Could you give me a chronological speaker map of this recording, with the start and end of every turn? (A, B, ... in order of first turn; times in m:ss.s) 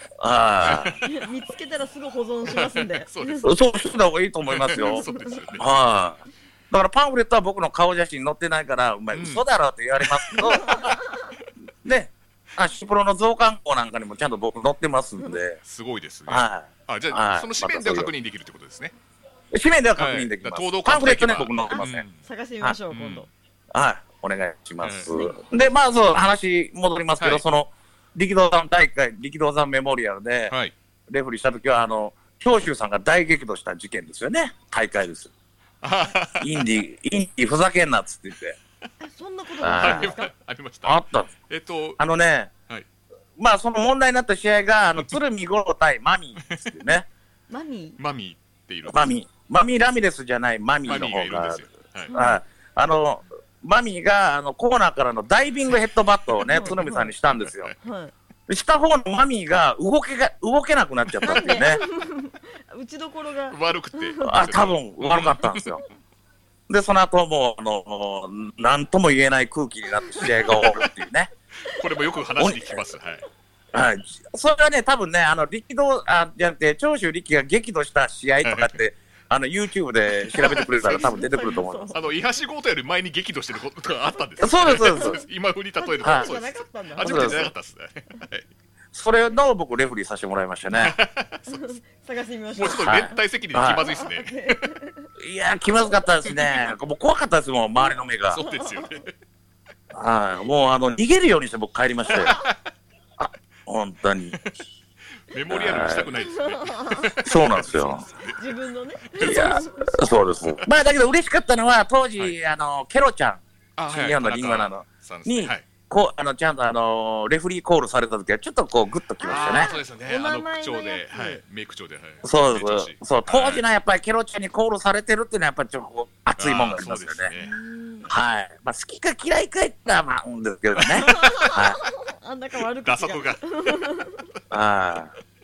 0:00.2-0:01.0 A
0:00.6-0:01.1 B
0:01.0-0:03.5 C
0:02.4-0:03.6 B
0:03.4-0:05.0 A
0:04.5-0:05.7 B
0:04.7-0:05.4 C
0:05.6-0:10.9 A
0:09.1-0:09.4 B
0:10.0-0:11.0 B
0:10.6-0:11.2 C
0:11.8-0:15.6 A
0:15.6-0:18.9 B
0:16.3-0:18.1 A
0:19.5-0:22.0 A
0:20.0-0:22.2 B
0:21.7-0:23.3 C
0:22.9-0:23.3 B
0:23.7-0:30.5 A
0:24.8-0:25.1 B
0:25.1-0:25.4 C
0:31.1-0:35.3 A
0:35.8-0:36.6 B
0:36.4-0:38.6 A
0:39.0-0:40.3 C
0:39.6-0:40.1 A
0:39.7-0:41.0 B
0:40.8-0:41.3 A
0:41.5-0:42.0 B
0:42.0-0:42.5 A
0:43.4-0:47.1 A
0:46.4-0:46.8 B
0:47.5-0:48.0 C
0:48.0-0:49.1 B
0:48.9-0:57.7 A
0:50.9-0:52.2 B
0:52.1-0:52.4 C
0:56.4-0:57.1 C
0:57.4-0:57.8 B
0:57.8-0:58.1 C
0:58.5-1:01.8 A
1:01.1-1:01.4 B
1:01.2-1:04.5 C
1:03.5-1:05.8 B
1:04.2-1:05.8 A
1:06.7-1:11.3 A
1:10.0-1:10.6 C
1:10.2-1:10.9 B
1:11.6-1:13.2 B
1:12.4-1:12.8 A
1:13.7-1:22.0 A
1:18.4-1:18.8 B
1:20.3-1:21.1 B
1:20.4-1:22.1 C
1:21.9-1:28.5 B
1:24.4-1:25.2 A
1:24.6-1:25.2 C
1:25.8-1:27.5 C
1:26.0-1:26.3 A
1:27.0-1:27.5 A
1:28.9-1:31.0 A
1:30.7-1:31.7 B
1:31.5-1:35.1 C
1:32.6-1:34.6 B
1:32.8-1:33.8 A
1:35.2-1:38.4 A
1:38.3-1:39.1 B
1:38.4-1:39.0 C
1:39.9-1:42.4 A
1:42.1-1:42.6 B
1:43.2-1:44.4 A
1:45.3-1:48.5 B
1:45.5-1:46.1 A
1:46.2-1:47.1 C
1:47.2-1:48.0 A
1:48.2-1:50.2 C
1:49.1-1:49.7 B
1:49.2-1:59.7 A
1:53.8-1:55.6 B
1:59.2-2:01.4 C
1:59.3-2:03.6 B
2:02.2-2:07.3 A
2:06.4-2:07.6 B
2:07.4-2:08.1 C
2:08.1-2:11.8 A
2:10.8-2:11.5 B
2:11.0-2:14.3 C
2:12.8-2:13.6 B
2:14.5-2:15.1 A